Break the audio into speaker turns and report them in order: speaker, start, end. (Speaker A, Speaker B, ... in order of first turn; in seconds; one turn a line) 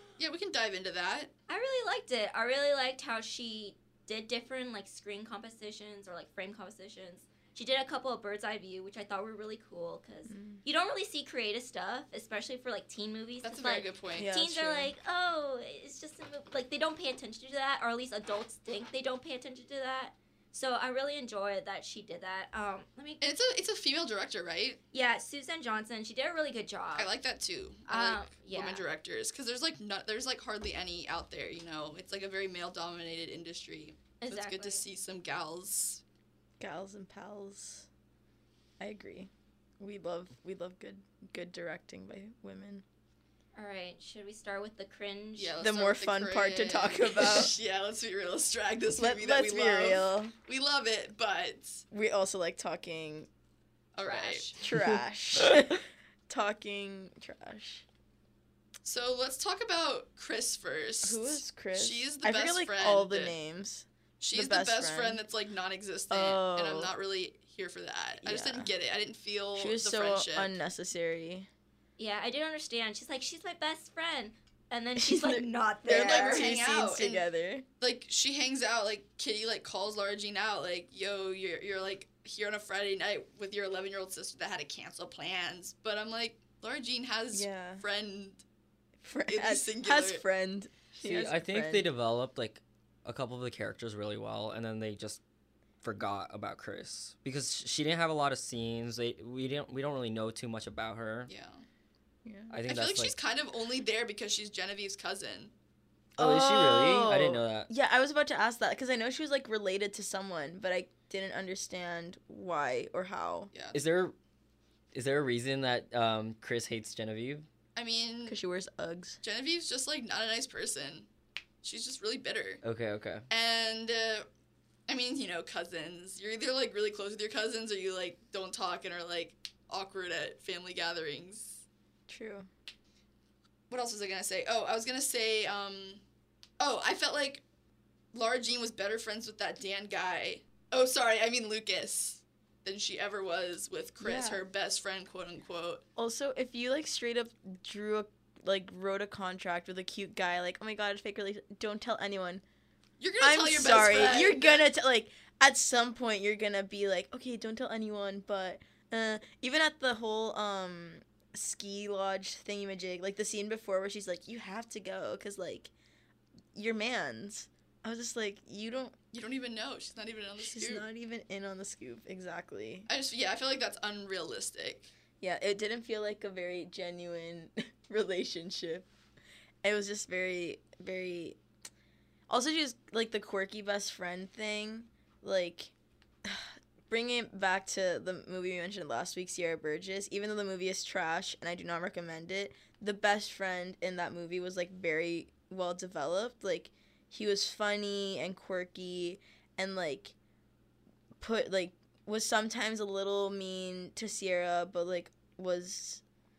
Speaker A: 0.2-1.3
Speaker B: 1.5-23.2
Speaker C: 10.3-10.6
Speaker A: 13.4-14.3
Speaker C: 14.2-14.9
Speaker A: 23.2-24.8
Speaker B: 24.9-27.1
Speaker A: 27.0-36.0
Speaker B: 27.9-28.8
Speaker B: 34.2-34.8
Speaker C: 36.6-37.9
Speaker C: 38.8-42.8
Speaker B: 43.6-45.6
Speaker A: 45.4-51.8
Speaker C: 45.6-47.5
Speaker C: 49.0-50.3
Speaker C: 51.9-53.3
Speaker A: 54.0-54.6
Speaker B: 54.1-54.6
Speaker C: 54.6-57.9
Speaker A: 58.8-63.4
Speaker C: 61.0-65.2
Speaker A: 64.2-70.5
Speaker C: 66.1-66.9
Speaker C: 68.2-68.7
Speaker C: 69.6-71.5
Speaker B: 72.0-76.5
Speaker C: 75.0-77.7
Speaker A: 75.9-77.3
Speaker A: 77.8-88.4
Speaker C: 87.3-87.8
Speaker C: 89.0-91.9
Speaker A: 89.3-90.2
Speaker D: 91.0-95.2
Speaker D: 95.8-101.3
Speaker A: 101.3-101.7
Speaker C: 102.2-102.5
Speaker D: 102.5-103.2
Speaker A: 102.7-105.5
Speaker D: 106.2-107.7
Speaker C: 106.2-113.5
Speaker A: 113.5-113.8
Speaker D: 113.7-114.2
Speaker D: 114.9-117.5
Speaker A: 117.8-118.4
Speaker C: 118.3-119.2
Speaker A: 119.2-121.1
Speaker A: 121.6-122.6
Speaker D: 122.6-123.3
Speaker A: 123.3-124.3
Speaker A: 124.9-131.6
Speaker C: 132.1-132.5
Speaker A: 133.7-136.0
Speaker A: 136.6-137.4
Speaker A: 138.1-145.8
Speaker C: 144.0-144.4
Speaker C: 146.0-152.4
Speaker A: 153.0-154.7
Speaker C: 153.2-165.7
Speaker C: 166.6-169.0
Speaker A: 169.1-170.8
Speaker C: 170.4-172.9
Speaker A: 172.9-174.9
Speaker C: 175.2-178.9
Speaker C: 179.6-181.4
Speaker C: 182.3-185.7
Speaker C: 186.2-200.2
Speaker C: 201.2-206.0